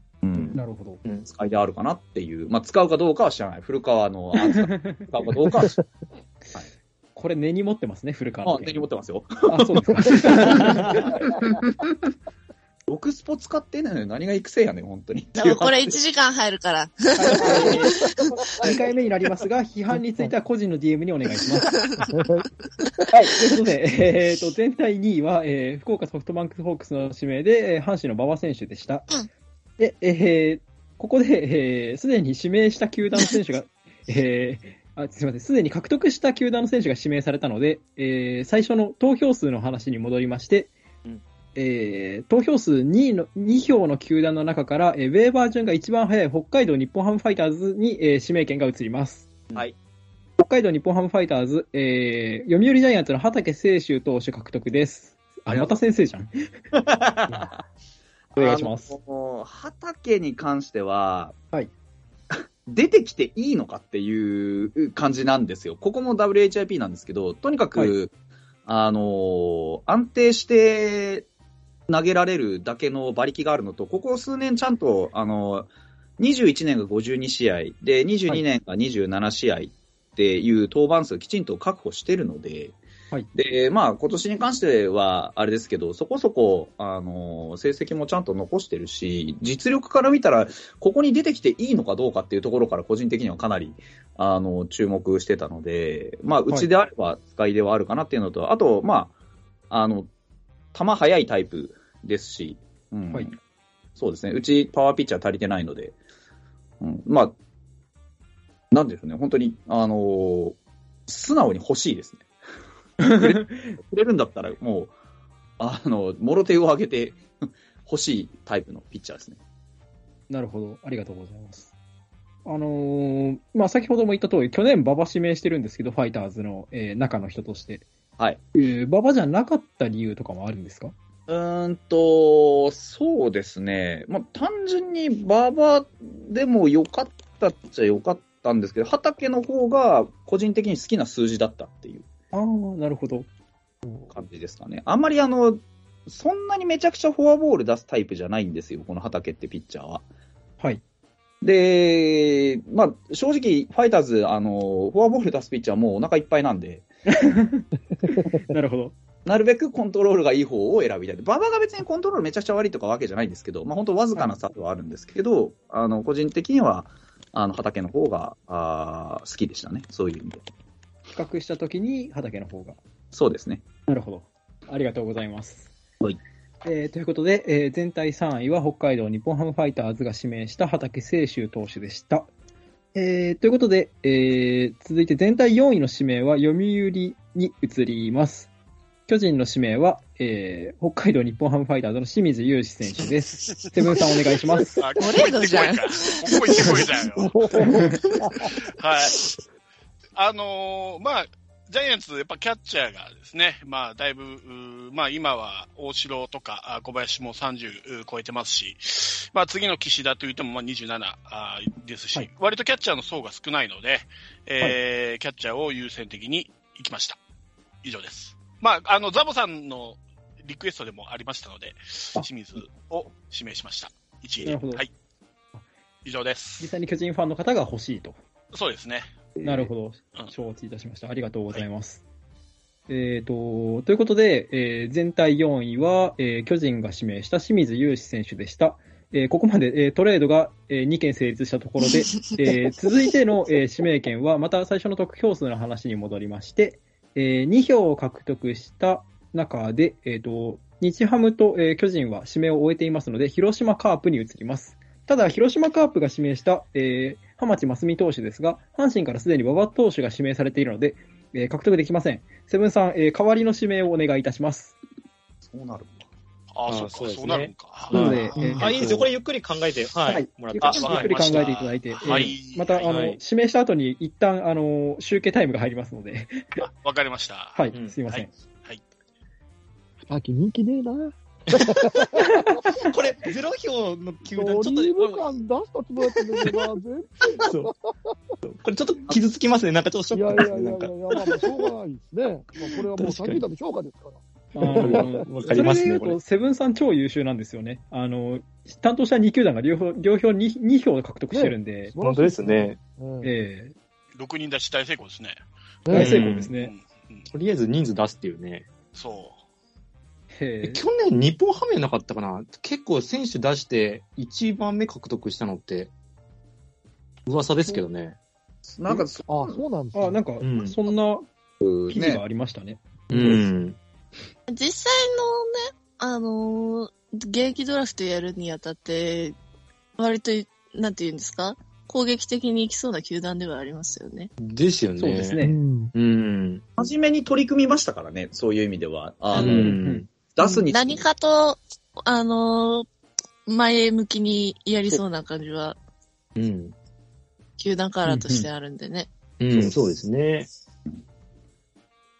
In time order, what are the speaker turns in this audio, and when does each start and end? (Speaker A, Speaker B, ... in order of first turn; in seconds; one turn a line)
Speaker A: 0.2-0.6
Speaker B: 0.5-1.0
Speaker A: 1.2-5.7
Speaker B: 4.4-5.1
Speaker B: 7.2-8.8
Speaker A: 8.4-11.5
Speaker B: 9.5-11.2
Speaker A: 12.9-16.0
Speaker C: 15.3-17.8
Speaker B: 17.1-18.0
Speaker D: 17.4-17.8
Speaker B: 18.6-21.9
Speaker D: 19.9-20.3
Speaker D: 22.1-22.4
Speaker B: 23.1-29.1
Speaker B: 29.8-40.7
Speaker B: 41.5-49.6
Speaker B: 50.4-56.3
Speaker A: 55.5-55.8
Speaker A: 56.7-57.6
Speaker A: 58.3-61.4
Speaker B: 58.4-58.9
Speaker A: 62.3-68.1
Speaker A: 68.7-71.3
Speaker A: 71.9-82.8
Speaker A: 83.3-99.1
Speaker A: 99.7-100.1
Speaker A: 100.7-103.3
Speaker A: 104.0-106.0
Speaker A: 106.8-107.3
Speaker A: 108.7-112.3
Speaker B: 113.0-113.8
Speaker A: 113.0-114.9
Speaker A: 115.6-117.2
Speaker A: 117.8-119.4
Speaker B: 120.3-121.7
Speaker B: 122.5-127.8
Speaker B: 128.5-130.9
Speaker A: 131.3-142.1
Speaker B: 142.3-143.3
Speaker A: 144.1-150.0
Speaker A: 151.4-156.9
Speaker B: 157.1-158.9
Speaker A: 159.2-170.4
Speaker B: 171.1-172.8
Speaker A: 173.1-173.6
Speaker B: 173.9-175.7
Speaker B: 176.6-182.3
Speaker B: 182.9-188.5
Speaker B: 189.1-194.8
Speaker E: 194.8-197.6
Speaker C: 195.0-196.8
Speaker D: 197.2-198.5
Speaker E: 198.5-199.2
Speaker E: 200.2-217.2
Speaker E: 217.8-224.9
Speaker B: 224.4-224.8
Speaker E: 226.0-226.7
Speaker B: 226.6-228.2
Speaker E: 228.5-229.3
Speaker F: 229.4-229.7
Speaker B: 229.4-232.0
Speaker B: 232.9-264.7
Speaker A: 265.4-266.0
Speaker E: 266.5-268.5
Speaker F: 266.7-271.5
Speaker B: 267.9-269.1
Speaker B: 270.1-276.5
Speaker E: 270.7-272.9
Speaker F: 272.0-273.2
Speaker E: 276.6-278.8
Speaker B: 277.5-278.3
Speaker F: 277.7-278.0
Speaker D: 280.1-282.5
Speaker F: 281.5-282.1
Speaker F: 282.8-285.2
Speaker D: 284.3-287.7
Speaker F: 286.1-286.7
Speaker F: 287.4-287.7
Speaker F: 288.4-291.5
Speaker D: 290.1-295.3
Speaker F: 292.6-293.4
Speaker B: 294.5-301.9
Speaker F: 294.7-296.2
Speaker D: 301.3-303.3
Speaker F: 302.0-302.8
Speaker B: 303.2-303.7
Speaker E: 304.1-305.4
Speaker D: 305.9-306.2
Speaker F: 305.9-306.5
Speaker B: 305.9-306.7
Speaker E: 306.5-307.3
Speaker F: 307.3-308.7
Speaker E: 308.9-309.4
Speaker B: 310.4-310.8
Speaker F: 310.6-315.9
Speaker F: 317.2-318.2
Speaker A: 318.6-319.6
Speaker D: 318.9-320.2
Speaker B: 319.9-321.2
Speaker F: 320.4-320.8
Speaker A: 321.6-322.2
Speaker B: 321.9-323.4
Speaker F: 323.1-323.8
Speaker C: 324.5-329.4
Speaker C: 330.0-334.3
Speaker F: 334.4-335.4
Speaker B: 335.0-335.6
Speaker D: 335.4-335.9
Speaker F: 335.9-336.6
Speaker A: 336.8-339.8
Speaker F: 339.3-340.1
Speaker B: 339.4-340.1
Speaker A: 340.3-341.0
Speaker C: 340.7-342.9
Speaker C: 343.5-345.8
Speaker F: 346.4-346.7
Speaker C: 347.6-349.1
Speaker B: 348.1-348.5
Speaker F: 349.4-350.5